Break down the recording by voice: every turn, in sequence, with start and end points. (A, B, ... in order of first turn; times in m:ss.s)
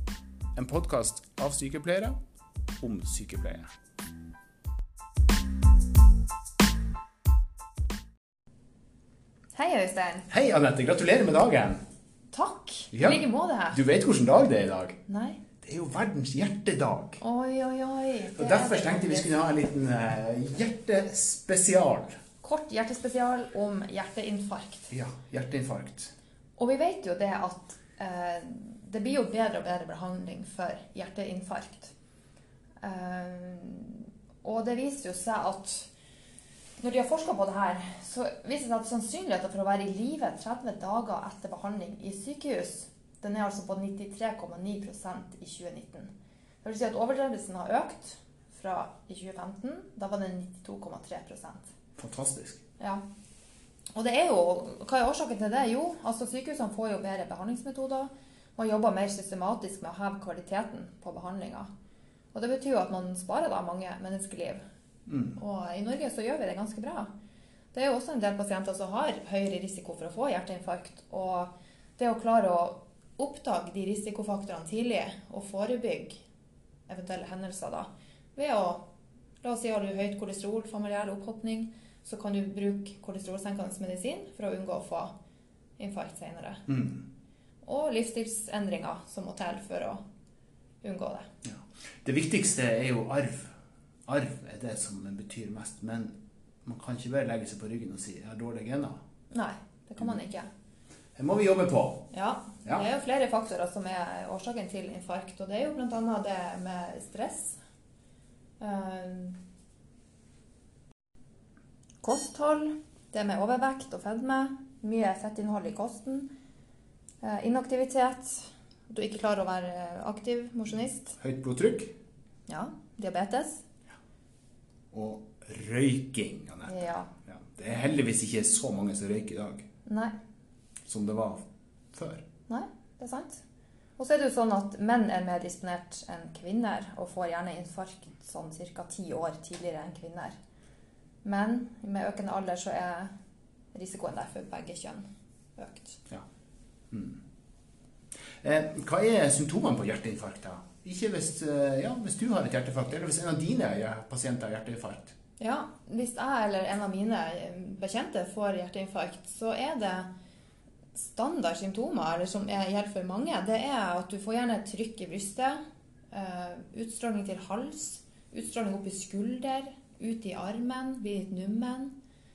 0:00.6-0:02.2 A
0:02.8-0:03.7 A
0:09.5-0:10.3 B
0:10.3-0:11.8 A
0:12.3-0:13.8 B
0:12.9-0:15.0 A
0:15.1-0:15.4 B
0:15.6-0:17.2 A
0:17.2-0:19.4 B
0:18.4-0:22.2 A
0:22.4-0:24.9 B
0:24.9-0:26.1 A
0:26.6-0:31.9 B
0:32.8-0:35.9 B
0:36.8-0:46.1 B
0:46.6-0:51.7 B
0:52.0-0:52.6 A
0:53.9-1:01.7 B
1:02.3-1:04.6 B
1:05.1-1:05.4 A
1:05.4-1:07.1 B
1:07.7-1:16.2 B
1:16.9-1:18.9 B
1:19.4-1:25.1 B
1:25.8-1:26.6 B
1:26.7-1:27.0 A
1:27.6-1:30.0 B
1:30.8-1:31.3 B
1:31.5-1:33.5 A
1:34.1-1:39.0 A
1:39.3-1:40.5 B
1:41.2-1:42.1 A
1:42.1-1:47.6 B
1:48.6-1:49.4 B
1:52.0-1:56.3 B
1:57.2-2:01.2 B
2:01.2-2:01.9 A
2:02.5-2:03.6 B
2:04.9-2:09.6 A
2:06.7-2:07.1 B
2:09.9-2:10.1 B
2:10.9-2:12.2 A
2:12.5-2:13.4 B
2:14.0-2:20.4 B
2:21.2-2:23.1 B
2:23.7-2:25.0 B
2:25.6-2:26.0 B
2:26.9-2:27.2 A
2:28.4-2:35.2 A
2:35.4-2:40.1 B
2:41.0-2:45.6 B
2:46.1-2:51.9 B